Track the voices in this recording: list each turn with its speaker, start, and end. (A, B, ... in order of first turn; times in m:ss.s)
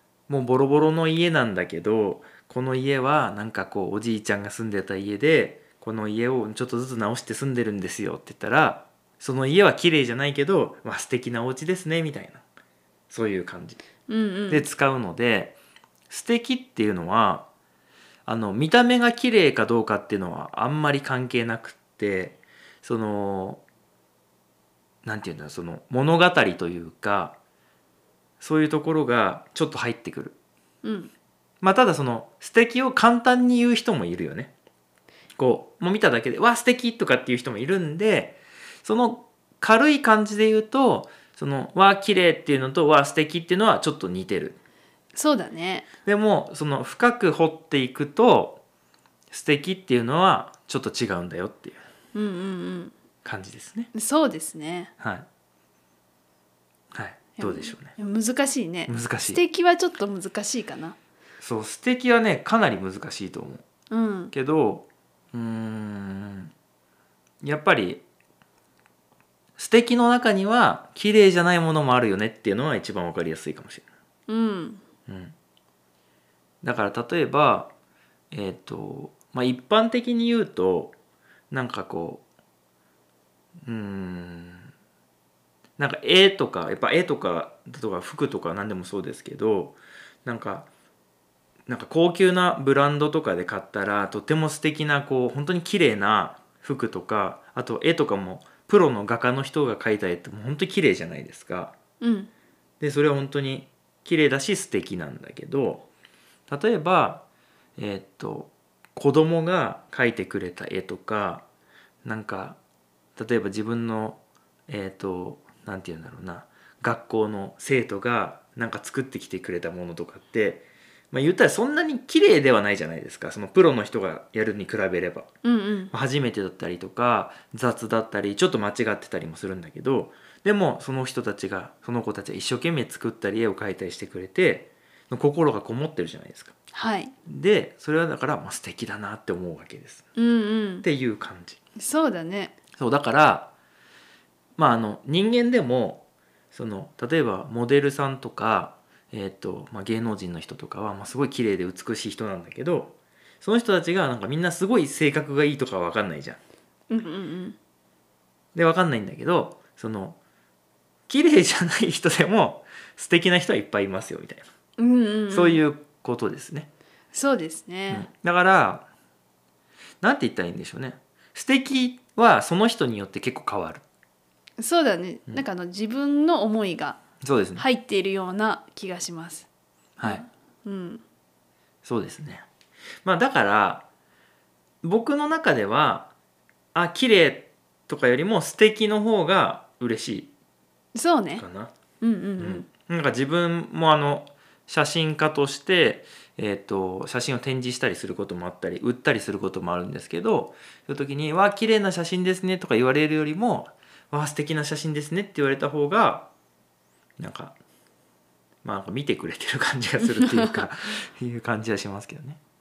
0:00.3-0:12.4 A
0:13.1-0:13.8 A
0:14.1-0:14.6 B
0:14.5-0:15.6 A
0:16.1-0:17.5 A
0:18.2-0:23.6 A
0:25.0-0:27.3 A
0:28.4-0:30.4 A
0:30.8-0:31.1 B
0:31.6-0:34.5 A
0:35.4-0:44.6 A
0:45.1-0:45.9 B
0:46.0-0:48.6 A
0:49.3-0:51.8 A
0:52.1-0:52.9 B
0:53.2-0:53.9 A
0:53.9-0:54.9 B
0:55.0-0:55.2 A
0:56.9-0:57.9 A
0:57.4-1:01.0 B
0:58.9-0:59.4 A
1:01.4-1:03.6 A
1:03.9-1:04.3 B
1:04.3-1:06.5 A
1:07.4-1:08.0 A
1:09.6-1:13.8 A
1:14.3-1:14.8 B
1:15.1-1:15.3 A
1:16.6-1:17.7 A
1:18.3-1:20.9 A
1:21.5-1:22.2 A
1:23.6-1:24.7 A
1:25.8-1:30.7 A
1:31.7-1:41.7 A
1:42.0-1:42.3 B
1:42.8-1:45.9 A
1:46.5-1:47.2 A
1:47.8-1:51.4 A
1:52.0-1:52.6 A
1:53.2-2:05.3 A
2:05.4-2:05.9 B
2:05.9-2:16.5 A
2:16.7-2:17.1 B
2:17.2-2:20.0 A
2:20.2-2:20.8 B
2:20.8-2:21.6 A
2:21.8-2:22.5 B
2:22.8-2:23.5 A
2:24.6-2:36.4 A
2:36.9-2:37.6 B
2:38.5-2:40.2 A
2:41.1-2:44.4 A
2:44.8-2:45.6 B
2:45.3-2:46.7 A
2:47.1-2:48.1 B
2:47.9-2:48.9 A
2:50.0-2:53.8 A
2:54.6-2:57.0 B
2:57.2-2:57.6 A
2:57.6-2:59.5 B
3:00.0-3:00.2 A
3:00.0-3:01.0 B
3:01.8-3:02.4 A
3:03.0-3:03.8 A
3:04.8-3:06.1 A
3:06.7-3:10.3 A
3:10.9-3:11.4 B
3:11.4-3:11.7 A
3:12.0-3:12.7 B
3:12.4-3:26.3 A
3:27.2-3:27.5 A
3:28.6-3:32.4 A
3:30.0-3:30.7 B